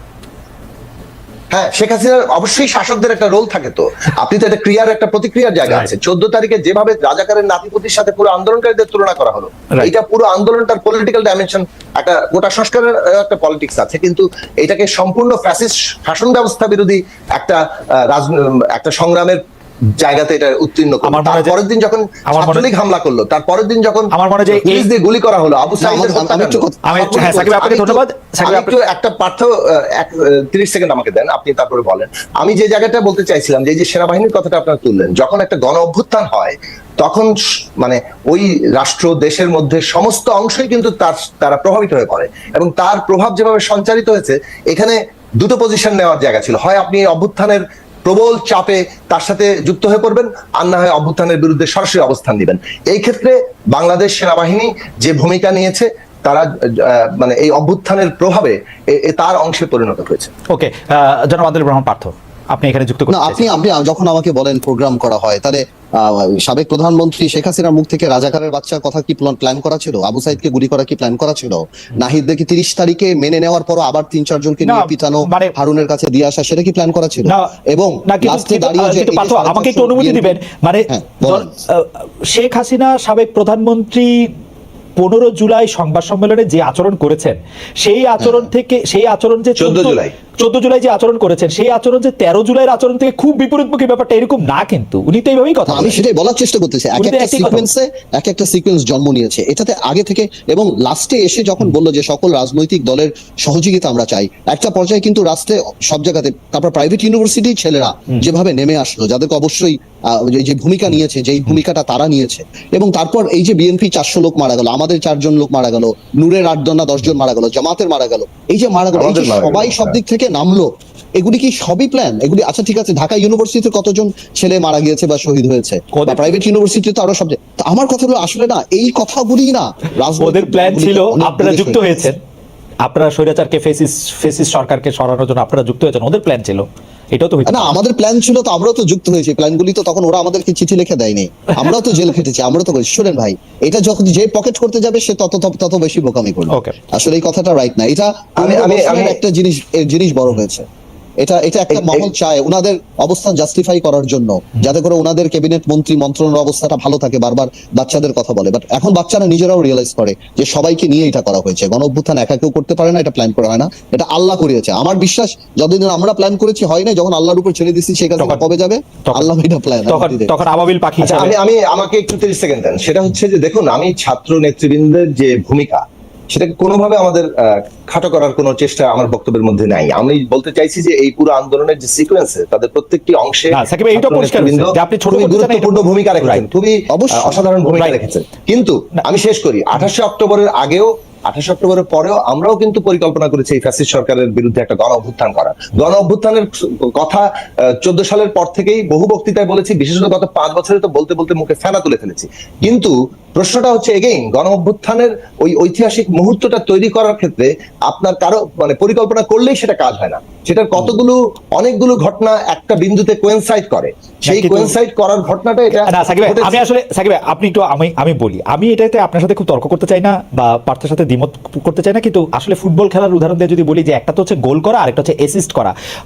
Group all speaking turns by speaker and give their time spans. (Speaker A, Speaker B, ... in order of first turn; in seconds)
Speaker A: 1.5-19.4, 20.0-60.3, 89.6-90.1, 118.9-120.0, 148.4-149.2, 151.7-152.1, 171.0-197.2, 197.8-216.6
Speaker B: 5.7-5.9, 21.0-21.6, 22.3-22.7, 24.1-24.9, 26.8-28.8, 60.5-63.4, 74.6-75.5, 77.2-84.1, 85.0-96.0, 97.0-97.7, 125.9-126.3, 130.2-132.2, 132.8-137.7, 168.2-168.4, 169.9-171.3, 183.5-186.4, 214.2-214.7, 215.7-225.7
Speaker C: 25.8-27.5, 63.1-80.4, 80.9-81.5, 88.2-88.5, 95.7-132.0, 137.5-150.6, 151.2-170.3, 186.9-187.4